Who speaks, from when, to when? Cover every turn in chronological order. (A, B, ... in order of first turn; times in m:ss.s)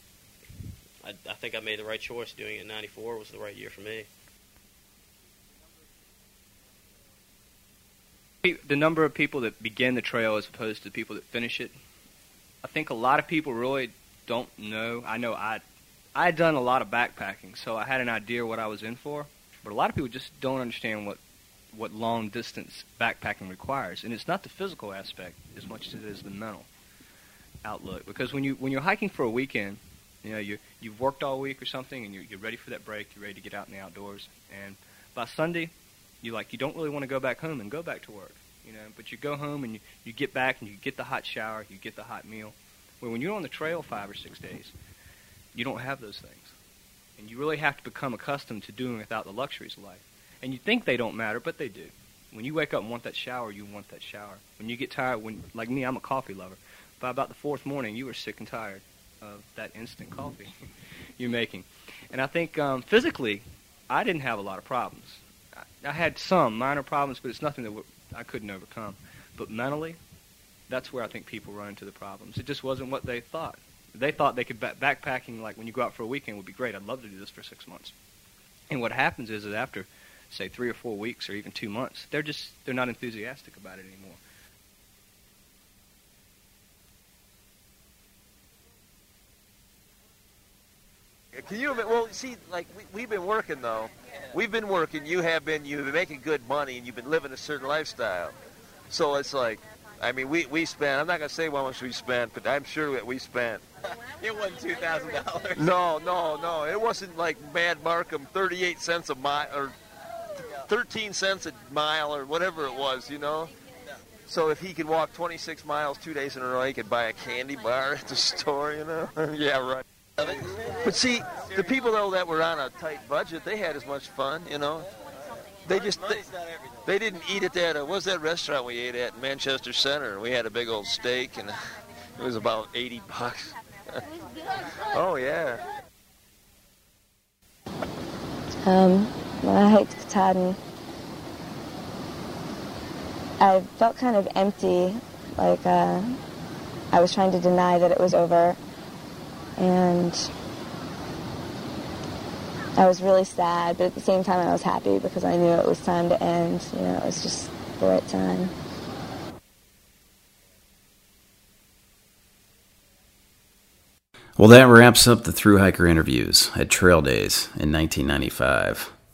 0:01.0-0:04.1 A
0:08.4-0:11.8 B
0:12.6-0:15.6 B
0:16.2-0:21.2 B
0:21.7-0:26.7 B
0:27.6-0:35.7 B
0:36.2-0:44.7 B
0:45.5-0:46.5 B
0:47.2-1:00.5 B
1:01.2-1:10.0 B
1:10.7-1:17.9 B
1:18.7-1:24.2 B
1:31.3-1:38.4 C
1:38.9-1:43.6 C
1:44.1-1:45.7 D
1:45.6-1:49.8 C
1:50.6-1:53.5 C
1:54.3-1:59.8 C
2:00.2-2:01.6 D
2:00.8-2:04.9 C
2:05.6-2:06.3 C
2:05.9-2:06.6 D
2:06.8-2:11.6 C
2:12.2-2:14.0 C
2:14.8-2:15.6 C
2:18.6-2:20.6 E
2:23.4-2:26.2 E
2:26.9-2:28.6 E
2:29.6-2:30.3 E
2:32.8-2:38.5 E
2:44.4-2:49.0 F